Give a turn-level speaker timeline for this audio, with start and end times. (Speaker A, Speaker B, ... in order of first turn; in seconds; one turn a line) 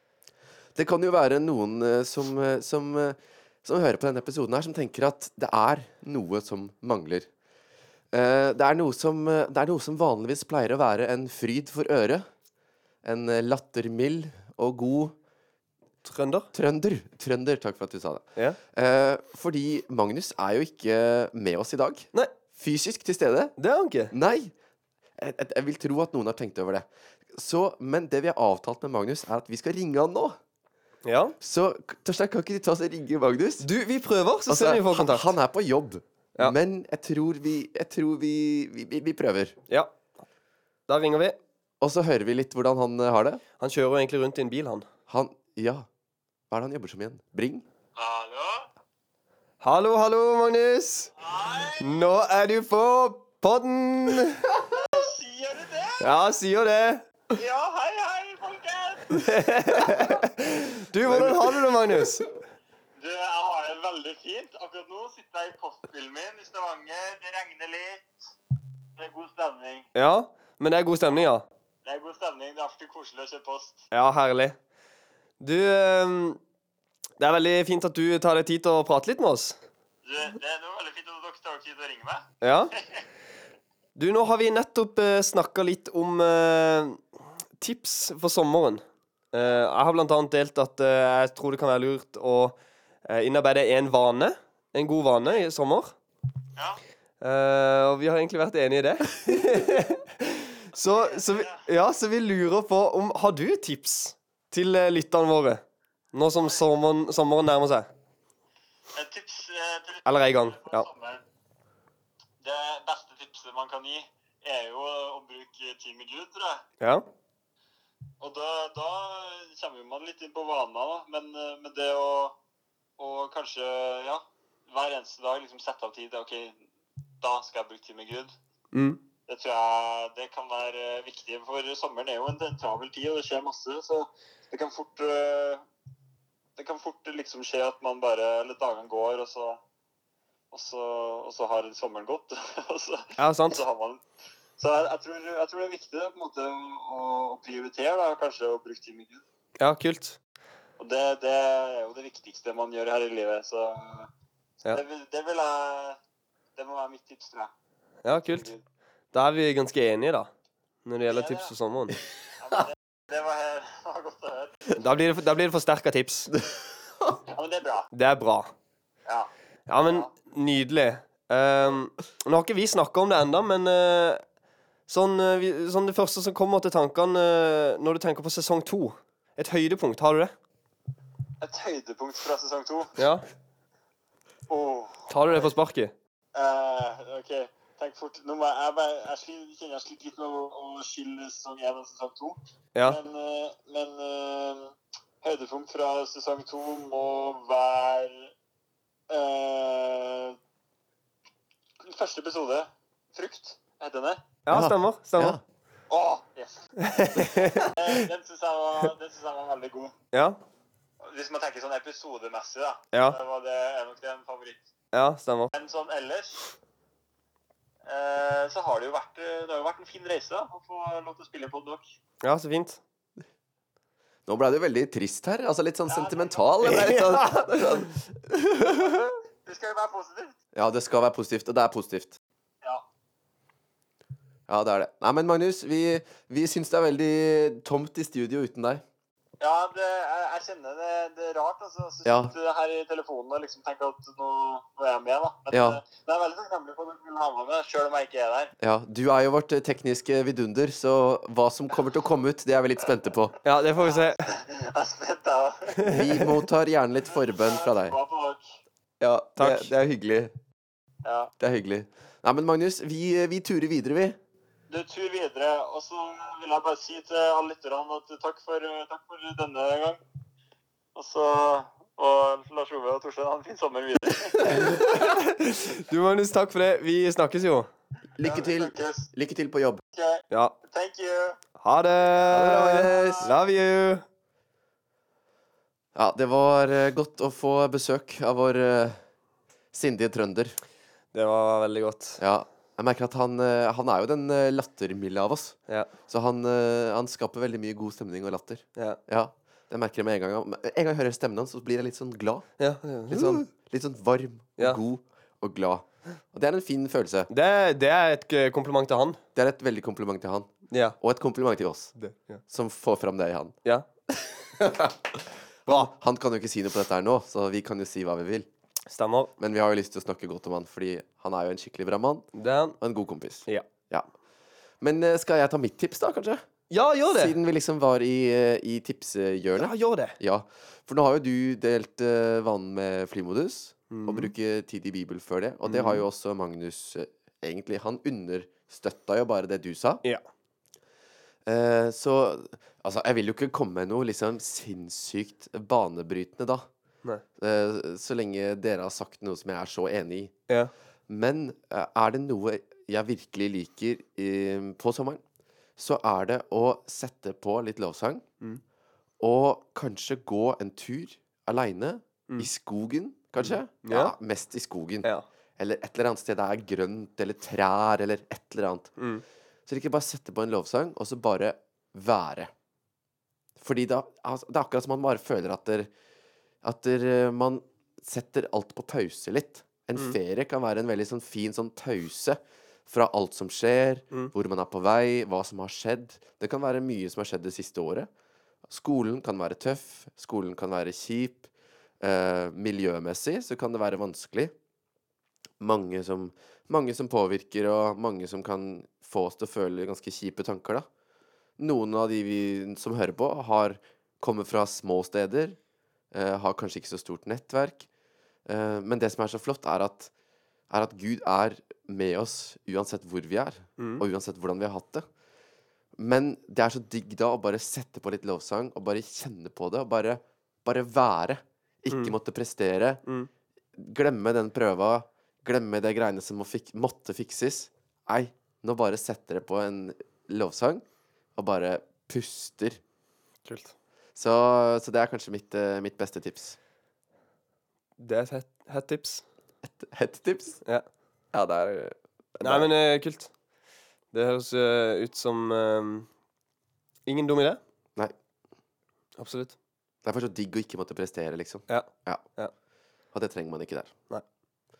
Speaker A: 0.8-7.3
Speaker A: 8.1-12.2
Speaker A: 13.0-15.2
Speaker B: 16.0-16.5
Speaker A: 16.5-23.6
Speaker B: 23.6-24.1
Speaker A: 24.1-24.5
Speaker A: 25.2-30.4
Speaker B: 31.1-31.4
Speaker A: 31.4-33.7
Speaker B: 33.6-35.3
Speaker A: 34.5-39.6
Speaker B: 40.9-41.4
Speaker A: 41.8-43.4
Speaker B: 43.6-44.9
Speaker A: 45.1-45.9
Speaker A: 46.5-47.6
Speaker C: 48.0-48.7
Speaker B: 49.6-54.6
Speaker C: 51.2-52.0
Speaker C: 54.6-56.2
Speaker B: 56.0-57.1
Speaker C: 57.3-59.3
Speaker B: 59.1-62.3
Speaker A: 61.1-61.6
Speaker C: 63.0-68.1
Speaker C: 69.0-69.9
Speaker B: 70.0-71.5
Speaker C: 71.8-73.8
Speaker B: 73.9-74.6
Speaker B: 75.4-76.4
Speaker B: 77.2-79.6
Speaker C: 80.0-82.3
Speaker B: 82.4-82.8
Speaker B: 84.0-87.0
Speaker B: 87.6-96.0
Speaker B: 97.2-107.9
Speaker C: 100.9-101.6
Speaker C: 108.9-111.2
Speaker B: 110.1-110.9
Speaker C: 112.4-116.6
Speaker C: 118.2-122.4
Speaker C: 123.0-126.7
Speaker C: 127.2-128.3
Speaker B: 128.7-129.0
Speaker C: 129.3-135.6
Speaker C: 136.6-139.6
Speaker C: 140.5-144.0
Speaker B: 143.2-143.6
Speaker C: 144.6-149.2
Speaker B: 149.6-150.2
Speaker C: 150.8-154.1
Speaker C: 154.6-156.0
Speaker C: 156.6-157.5
Speaker B: 158.1-158.5
Speaker C: 158.2-158.6
Speaker B: 159.1-160.3
Speaker B: 160.8-162.0
Speaker C: 161.1-161.5
Speaker C: 162.4-164.7
Speaker B: 164.8-166.3
Speaker C: 167.3-167.9
Speaker B: 167.9-168.5
Speaker B: 169.7-174.2
Speaker C: 169.8-170.1
Speaker B: 174.9-180.3
Speaker C: 181.4-183.0
Speaker B: 183.0-183.2
Speaker C: 184.5-185.5
Speaker B: 185.1-185.9
Speaker C: 186.3-198.3
Speaker C: 199.1-200.4
Speaker C: 201.8-204.2
Speaker B: 204.5-205.4
Speaker A: 204.5-205.4
Speaker C: 205.9-209.9
Speaker B: 206.8-208.1
Speaker B: 210.1-210.4
Speaker C: 211.0-214.6
Speaker B: 212.9-213.2
Speaker B: 214.9-215.5
Speaker C: 215.5-216.5
Speaker C: 217.8-221.9
Speaker B: 222.2-222.8
Speaker A: 224.2-229.0
Speaker C: 225.9-226.5
Speaker B: 226.6-227.8
Speaker C: 228.7-230.3
Speaker A: 230.6-232.2
Speaker A: 234.5-238.8
Speaker C: 239.4-248.5
Speaker A: 242.1-242.3
Speaker A: 245.5-245.8
Speaker A: 248.6-253.4
Speaker B: 253.4-254.3
Speaker C: 253.8-255.9
Speaker B: 255.8-256.3
Speaker A: 255.9-258.0
Speaker C: 257.1-258.6
Speaker A: 259.0-260.3
Speaker B: 259.4-259.7
Speaker C: 261.0-261.3
Speaker A: 261.4-264.2
Speaker C: 264.7-270.0
Speaker C: 270.9-274.9
Speaker B: 274.4-277.7
Speaker A: 278.2-279.8
Speaker C: 278.2-279.1
Speaker C: 279.9-281.4
Speaker B: 281.6-284.1
Speaker A: 282.3-283.3
Speaker C: 282.8-283.3
Speaker A: 285.9-289.0
Speaker A: 289.7-290.6
Speaker B: 291.1-292.2
Speaker A: 292.2-295.6
Speaker A: 296.1-302.5
Speaker B: 302.6-303.5
Speaker A: 303.1-307.3
Speaker B: 307.3-309.2
Speaker A: 309.4-311.9
Speaker B: 310.7-311.0
Speaker B: 312.0-312.4
Speaker A: 312.5-313.6
Speaker A: 314.6-318.5
Speaker B: 318.9-319.3
Speaker A: 319.4-322.2
Speaker B: 322.4-322.8
Speaker A: 322.8-324.1
Speaker A: 324.8-326.4
Speaker B: 326.7-327.4
Speaker A: 327.1-340.0
Speaker B: 329.6-330.2
Speaker B: 333.9-334.3
Speaker B: 335.6-336.0
Speaker A: 341.5-346.7
Speaker A: 347.4-350.3
Speaker A: 351.1-355.2
Speaker A: 355.8-358.2
Speaker A: 359.2-368.9
Speaker B: 363.4-364.1
Speaker B: 369.0-369.2
Speaker A: 369.7-372.5
Speaker A: 373.6-375.9
Speaker A: 376.6-388.1
Speaker A: 388.7-391.5
Speaker A: 392.0-394.5
Speaker A: 395.6-400.9
Speaker A: 401.6-405.6
Speaker A: 406.1-407.9
Speaker A: 408.5-410.1
Speaker A: 410.7-415.1
Speaker B: 413.8-414.0
Speaker A: 416.0-423.0
Speaker B: 421.9-422.1
Speaker A: 423.8-430.8
Speaker A: 431.4-432.8
Speaker B: 433.5-433.7
Speaker A: 434.1-436.6
Speaker B: 438.0-439.2
Speaker A: 439.6-440.6
Speaker A: 441.3-442.7
Speaker B: 442.4-443.3
Speaker B: 444.1-446.1
Speaker B: 447.1-447.6
Speaker B: 449.2-449.6
Speaker A: 450.0-452.2
Speaker B: 451.7-452.5
Speaker A: 453.1-453.9